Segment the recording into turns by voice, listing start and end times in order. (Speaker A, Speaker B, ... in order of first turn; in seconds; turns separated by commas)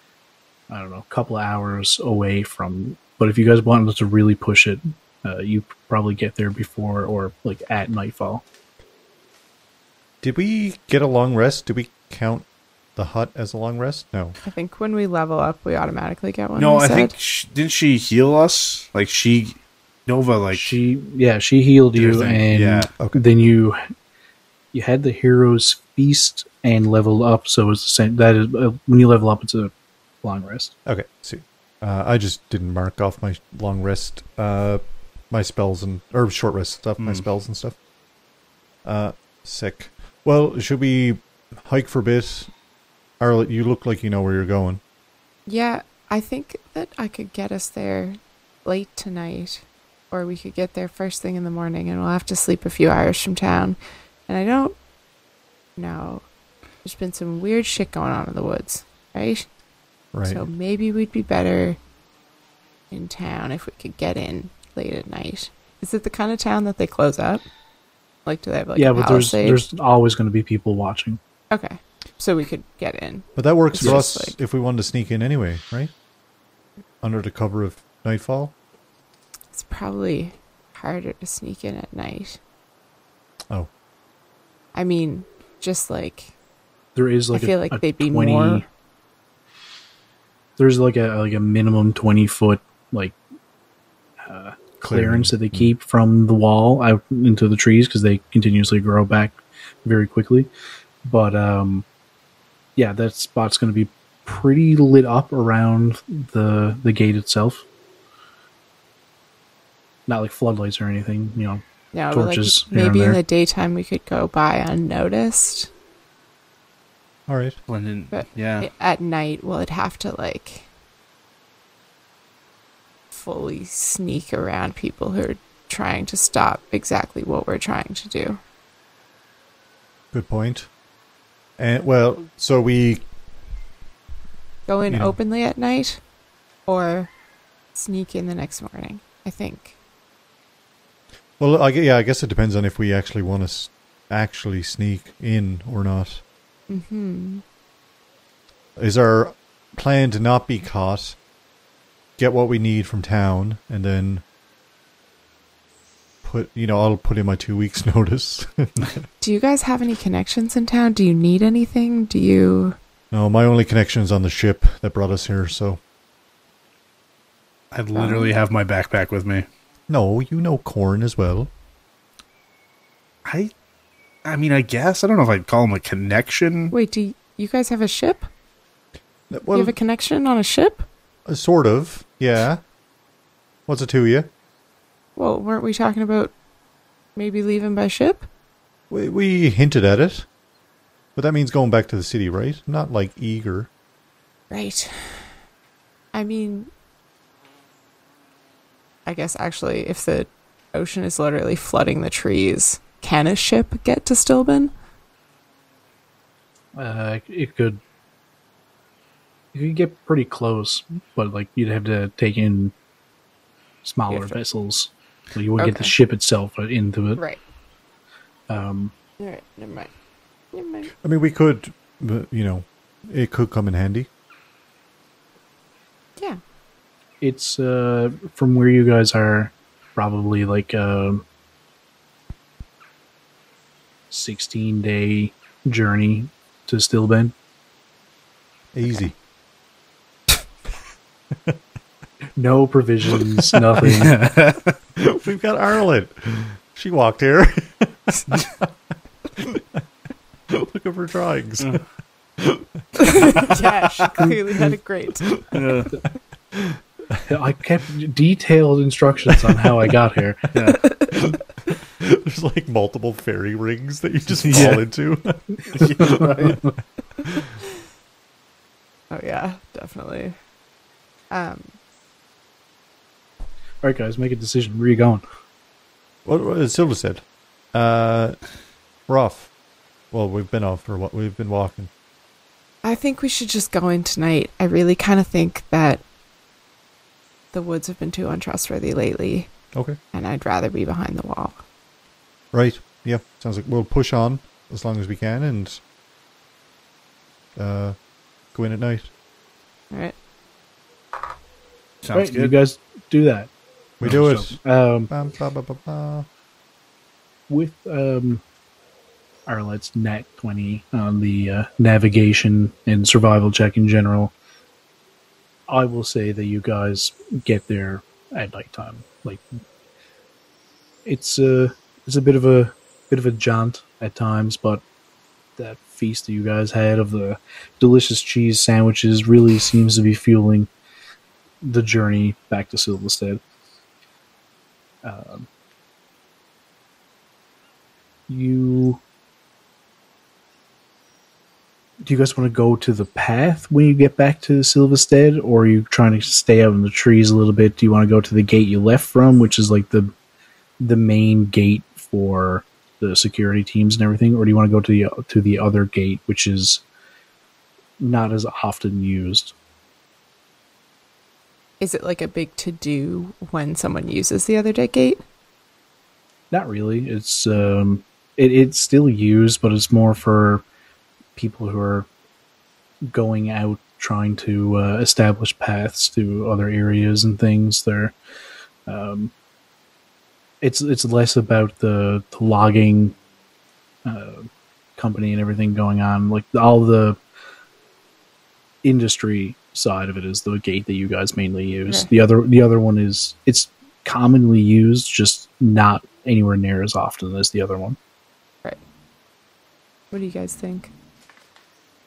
Speaker A: 0.7-8.4, Speaker B: 10.2-12.4, Speaker B: 13.0-14.4, Speaker C: 14.4-17.1, Speaker D: 16.6-20.7, Speaker A: 20.5-23.8, Speaker D: 21.9-22.9, Speaker A: 24.7-29.7, Speaker A: 30.2-30.7, Speaker B: 30.9-37.8, Speaker B: 38.9-42.5, Speaker B: 43.2-44.8, Speaker C: 45.5-53.8, Speaker C: 54.3-54.8, Speaker C: 55.8-56.2, Speaker C: 56.8-59.5, Speaker B: 60.1-60.5, Speaker C: 60.3-61.8, Speaker C: 62.9-67.4, Speaker C: 68.2-69.6, Speaker A: 68.8-71.2, Speaker C: 71.5-74.3, Speaker B: 73.4-75.9, Speaker B: 77.0-78.5, Speaker C: 79.5-82.4, Speaker C: 84.7-86.3, Speaker A: 87.0-88.7, Speaker C: 87.3-88.7, Speaker A: 90.6-93.2, Speaker A: 94.2-100.5, Speaker B: 94.8-95.7, Speaker A: 101.0-101.8, Speaker A: 102.8-107.7, Speaker A: 110.1-113.2, Speaker C: 111.9-115.7, Speaker B: 117.3-117.6, Speaker D: 117.7-118.7, Speaker C: 118.1-120.7, Speaker C: 123.1-128.4, Speaker B: 130.1-130.7, Speaker B: 131.6-133.0, Speaker C: 134.7-136.0, Speaker B: 134.9-135.2, Speaker C: 136.7-137.1, Speaker C: 137.8-139.7, Speaker B: 141.4-146.2, Speaker C: 146.7-147.4, Speaker B: 148.8-151.2, Speaker B: 152.2-154.2, Speaker B: 156.2-158.9, Speaker C: 159.2-162.8, Speaker B: 163.1-165.8, Speaker D: 167.7-169.5, Speaker C: 167.9-168.3, Speaker B: 169.9-171.5, Speaker D: 173.2-173.5, Speaker D: 174.2-176.7, Speaker C: 176.7-178.3, Speaker B: 179.3-179.8, Speaker C: 179.5-180.9, Speaker B: 181.3-182.6, Speaker B: 183.7-184.3, Speaker C: 185.2-186.3, Speaker C: 187.2-188.3, Speaker B: 188.9-190.3, Speaker B: 191.2-193.7, Speaker C: 194.5-195.3, Speaker C: 196.1-196.7, Speaker C: 199.1-204.7, Speaker A: 206.8-207.8, Speaker A: 209.5-212.7, Speaker A: 213.8-217.2, Speaker C: 214.1-214.4, Speaker C: 215.6-215.9, Speaker A: 218.5-218.9, Speaker C: 219.2-219.9, Speaker C: 220.5-220.9, Speaker B: 221.0-224.1, Speaker A: 227.2-231.2, Speaker A: 234.1-237.3, Speaker B: 238.7-239.1, Speaker A: 242.4-244.2, Speaker D: 243.8-244.8, Speaker B: 245.0-248.7, Speaker B: 249.4-249.8, Speaker B: 250.5-251.8, Speaker B: 252.4-253.7, Speaker C: 253.0-255.3, Speaker B: 255.2-255.6, Speaker D: 255.5-255.9, Speaker B: 256.5-257.2, Speaker A: 257.3-260.5, Speaker D: 260.5-260.8, Speaker C: 260.9-261.2, Speaker B: 261.1-266.6, Speaker D: 264.4-264.8, Speaker D: 265.7-266.6, Speaker C: 269.1-270.4, Speaker C: 271.3-271.8, Speaker A: 273.8-275.2, Speaker B: 276.2-277.2, Speaker B: 277.7-278.4, Speaker B: 279.1-279.5, Speaker B: 280.1-281.9, Speaker C: 282.8-286.0, Speaker C: 287.5-289.5, Speaker C: 290.1-291.6, Speaker B: 292.5-295.8, Speaker B: 297.6-298.0, Speaker B: 298.5-299.1, Speaker D: 302.0-302.5, Speaker A: 302.1-303.5, Speaker B: 304.0-304.6, Speaker A: 304.0-305.1, Speaker B: 305.1-306.3, Speaker A: 307.5-308.4, Speaker A: 309.5-314.3, Speaker A: 315.7-319.4, Speaker A: 321.1-324.8, Speaker A: 325.6-330.7, Speaker A: 331.6-333.4, Speaker A: 335.0-335.5, Speaker A: 338.3-339.0, Speaker A: 342.0-350.1, Speaker A: 350.8-356.8, Speaker A: 358.0-359.5, Speaker C: 361.8-365.2, Speaker A: 366.5-370.6, Speaker A: 371.4-372.1, Speaker A: 373.1-378.1, Speaker A: 378.9-379.3, Speaker A: 380.6-383.2, Speaker A: 384.1-387.2, Speaker A: 388.8-398.0, Speaker C: 400.1-400.9